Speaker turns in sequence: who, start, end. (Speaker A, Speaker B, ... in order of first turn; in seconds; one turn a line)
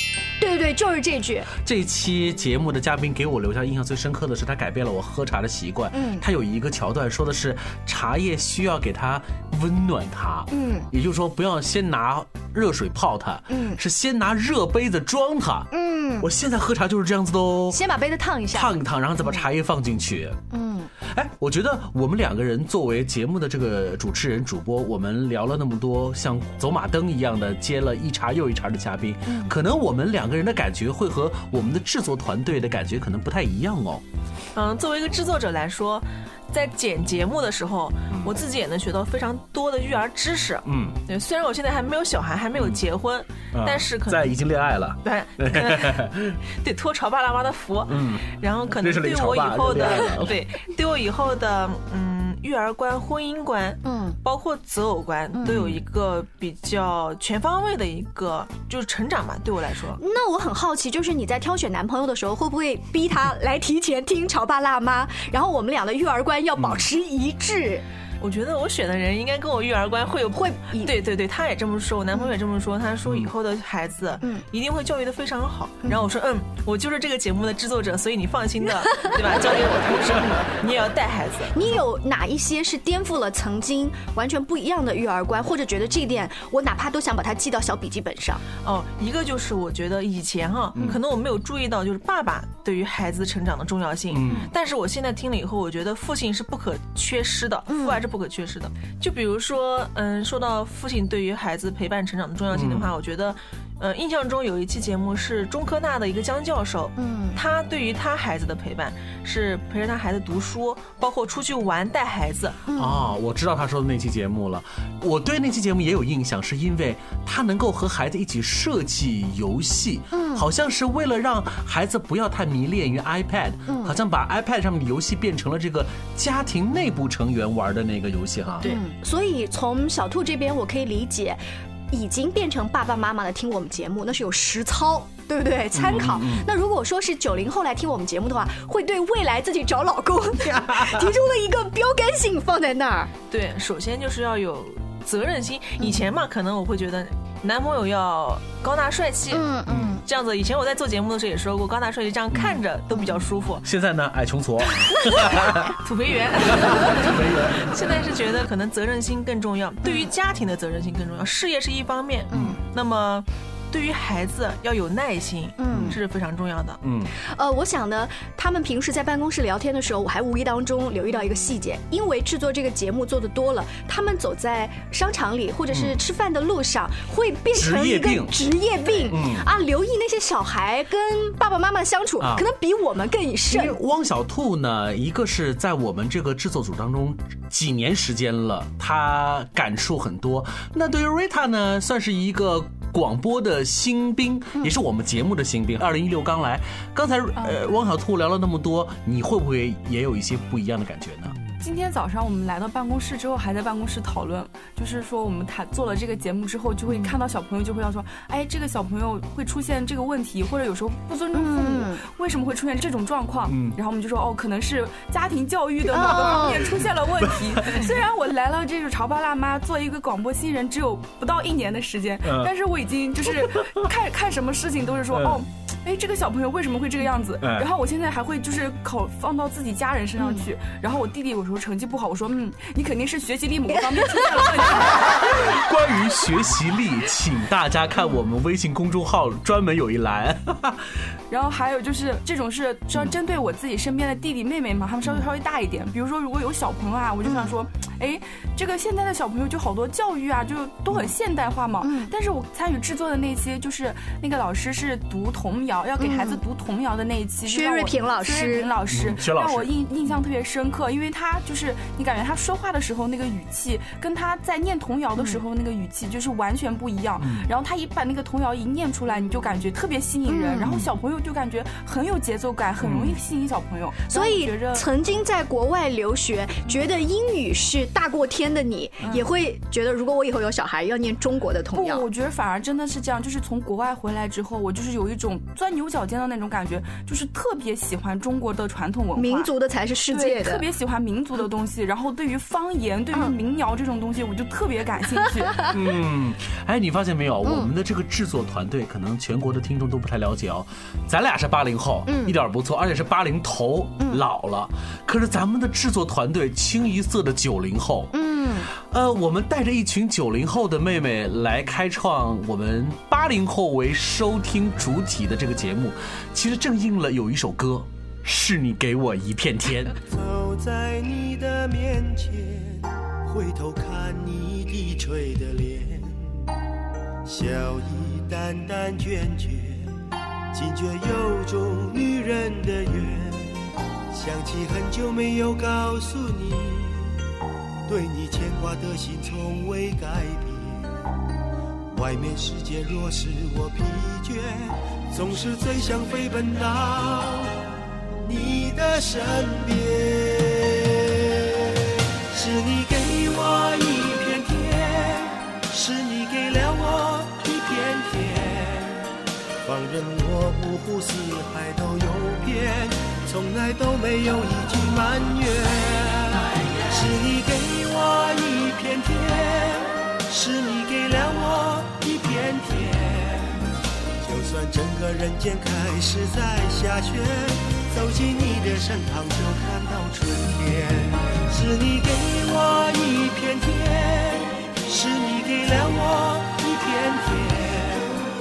Speaker A: 0.4-1.5
Speaker B: 1.6-15.7
Speaker A: 5.9-6.2
Speaker A: 10.5-10.9
Speaker A: 13.5-13.8
Speaker A: 15.7-16.3
Speaker B: 16.2-17.8
Speaker A: 17.7-19.4
Speaker B: 18.5-20.4
Speaker A: 20.5-20.9
Speaker B: 21.1-34.0
Speaker A: 29.2-29.5
Speaker C: 34.5-44.4
Speaker B: 40.6-41.0
Speaker B: 42.5-42.8
Speaker B: 43.5-46.4
Speaker C: 45.0-46.0
Speaker C: 46.6-60.0
Speaker B: 47.9-50.4
Speaker A: 53.8-54.1
Speaker B: 55.4-55.8
Speaker A: 60.0-67.8
Speaker B: 66.5-66.9
Speaker C: 68.2-81.8
Speaker A: 70.3-70.9
Speaker A: 81.5-88.4
Speaker C: 88.6-112.6
Speaker B: 90.7-91.0
Speaker B: 94.1-94.5
Speaker A: 97.7-98.0
Speaker B: 102.5-102.9
Speaker A: 107.0-107.4
Speaker A: 112.7-113.1
Speaker B: 112.7-128.8
Speaker A: 120.1-120.5
Speaker A: 123.7-124.0
Speaker A: 128.6-131.4
Speaker A: 131.9-143.1
Speaker B: 135.7-136.5
Speaker B: 140.7-141.0
Speaker C: 143.3-149.5
Speaker A: 149.3-150.0
Speaker B: 149.7-150.0
Speaker C: 150.0-153.6
Speaker B: 152.3-152.6
Speaker B: 153.6-155.8
Speaker C: 155.8-166.8
Speaker B: 156.4-157.7
Speaker A: 159.8-160.1
Speaker A: 162.3-162.6
Speaker A: 165.6-166.0
Speaker B: 165.7-166.0
Speaker B: 166.8-167.1
Speaker A: 167.2-183.8
Speaker B: 175.7-176.0
Speaker B: 177.5-178.4
Speaker B: 179.0-179.5
Speaker B: 182.2-182.5
Speaker B: 183.5-201.3
Speaker D: 201.6-235.3
Speaker B: 206.8-207.2
Speaker A: 211.3-212.0
Speaker B: 213.4-213.8
Speaker A: 215.9-216.8
Speaker B: 216.7-217.9
Speaker B: 222.2-222.5
Speaker B: 223.3-223.9
Speaker B: 225.1-225.4
Speaker B: 227.4-227.7
Speaker A: 230.2-230.5
Speaker A: 234.2-234.5
Speaker B: 235.0-240.8
Speaker D: 241.3-274.9
Speaker B: 245.0-245.3
Speaker A: 247.2-247.6
Speaker A: 251.8-252.1
Speaker A: 256.0-256.4
Speaker A: 257.4-258.7
Speaker B: 258.9-259.7
Speaker A: 265.2-265.4
Speaker B: 267.2-267.5
Speaker A: 270.3-270.7
Speaker B: 270.6-270.9
Speaker B: 272.8-273.2
Speaker A: 274.1-282.1
Speaker D: 281.7-289.5
Speaker A: 289.1-290.7
Speaker D: 290.1-295.6
Speaker B: 295.7-308.1
Speaker A: 297.4-297.7
Speaker A: 302.1-302.4
Speaker A: 308.1-308.7
Speaker B: 308.7-320.0
Speaker E: 320.1-326.4
Speaker E: 327.2-329.9
Speaker E: 330.5-337.2
Speaker E: 337.9-341.0
Speaker E: 341.9-347.6
Speaker E: 348.2-351.6
Speaker E: 352.3-359.1
Speaker E: 359.6-373.6
Speaker E: 374.2-388.2